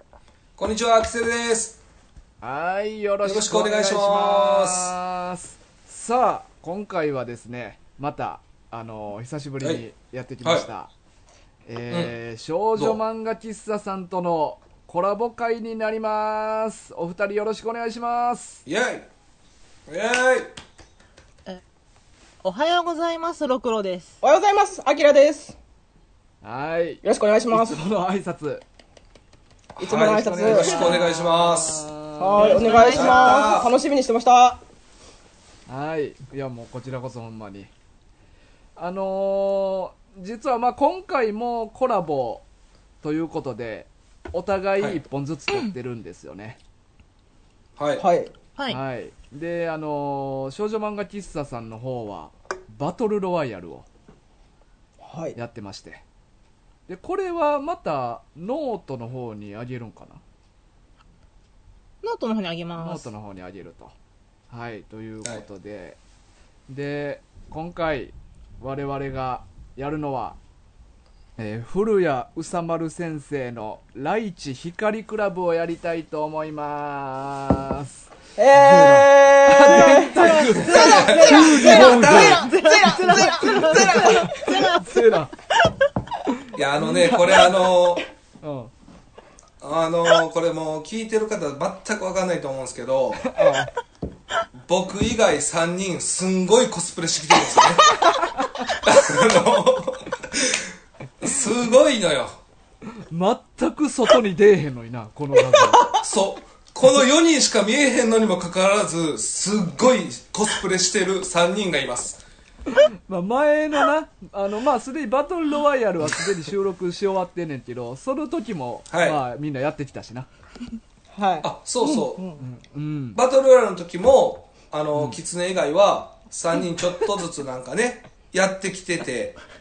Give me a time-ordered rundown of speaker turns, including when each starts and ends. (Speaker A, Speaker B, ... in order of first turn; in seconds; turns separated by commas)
Speaker A: 0.6-1.8, Speaker B: 2.4-10.9, Speaker A: 3.2-4.9, Speaker B: 11.7-18.6, Speaker A: 11.9-12.1, Speaker A: 18.6-19.1, Speaker A: 19.9-20.5, Speaker C: 22.4-24.2, Speaker D: 24.2-25.6, Speaker B: 26.4-28.6, Speaker D: 27.0-27.8, Speaker A: 29.8-31.8, Speaker D: 29.8-30.9, Speaker B: 30.0-32.9, Speaker D: 32.2-34.6, Speaker C: 32.3-33.6, Speaker A: 32.8-33.7, Speaker B: 35.7-37.7, Speaker B: 38.8-42.4, Speaker B: 43.0-46.6, Speaker A: 47.8-48.0, Speaker D: 48.0-48.3, Speaker B: 48.7-53.9, Speaker D: 55.0-55.4, Speaker B: 55.3-56.0, Speaker B: 56.9-60.2, Speaker C: 62.0-63.1, Speaker B: 62.8-63.9, Speaker B: 64.5-66.0, Speaker B: 66.7-70.4, Speaker B: 71.4-85.3, Speaker D: 78.4-84.7, Speaker C: 79.8-85.2, Speaker A: 80.6-82.3, Speaker A: 86.5-88.0, Speaker B: 88.4-88.7, Speaker A: 89.6-93.3, Speaker B: 93.2-93.7, Speaker A: 94.7-98.0, Speaker B: 98.1-98.6, Speaker A: 98.8-100.7, Speaker A: 101.2-102.4, Speaker B: 103.0-105.9, Speaker D: 105.5-106.0, Speaker A: 106.0-112.2, Speaker B: 112.7-120.3, Speaker A: 118.9-119.2, Speaker D: 121.1-122.4, Speaker A: 121.4-122.3, Speaker B: 122.4-123.2, Speaker A: 123.2-129.4